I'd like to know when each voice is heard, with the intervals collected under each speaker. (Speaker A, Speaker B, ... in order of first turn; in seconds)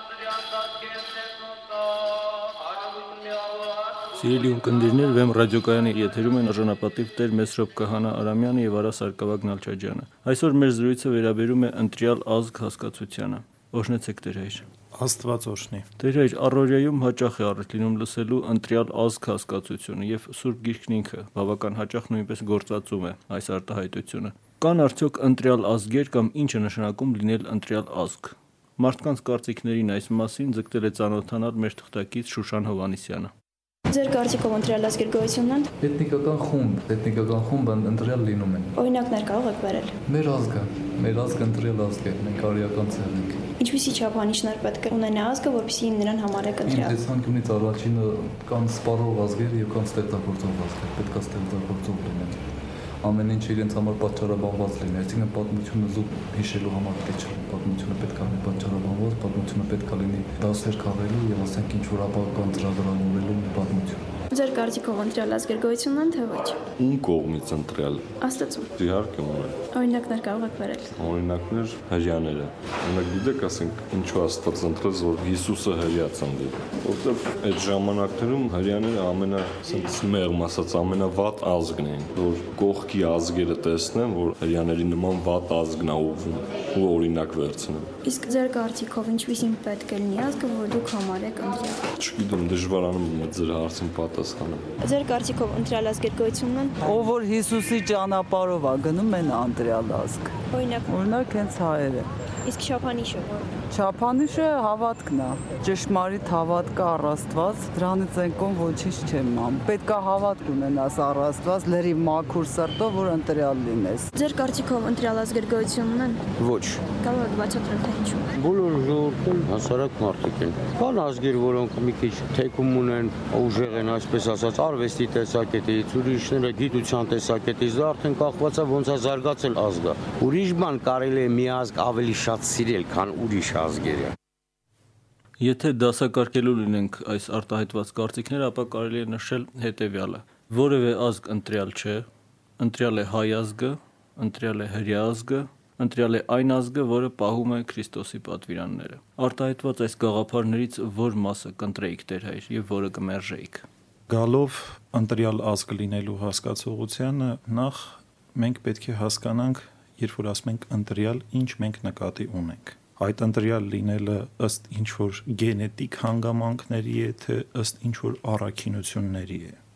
Speaker A: 4.1-14.6, 16.0-33.3, 135.4-142.1, 142.6-153.7
Speaker B: 14.9-15.9, 154.1-169.6
Speaker C: 33.9-35.7, 38.7-40.0, 43.6-47.0, 64.3-66.6, 68.2-68.7, 69.7-71.0, 88.0-91.8, 94.8-96.8, 100.5-100.9, 102.4-103.4, 114.1-116.2, 117.0-118.3
Speaker D: 35.8-38.8, 40.1-43.5, 46.6-52.5, 53.0-64.2
Speaker E: 66.8-68.0, 68.7-69.6, 71.0-87.9, 92.0-94.7
Speaker F: 96.8-100.3, 100.9-102.1, 103.7-114.1
Speaker G: 116.4-116.8, 118.3-134.1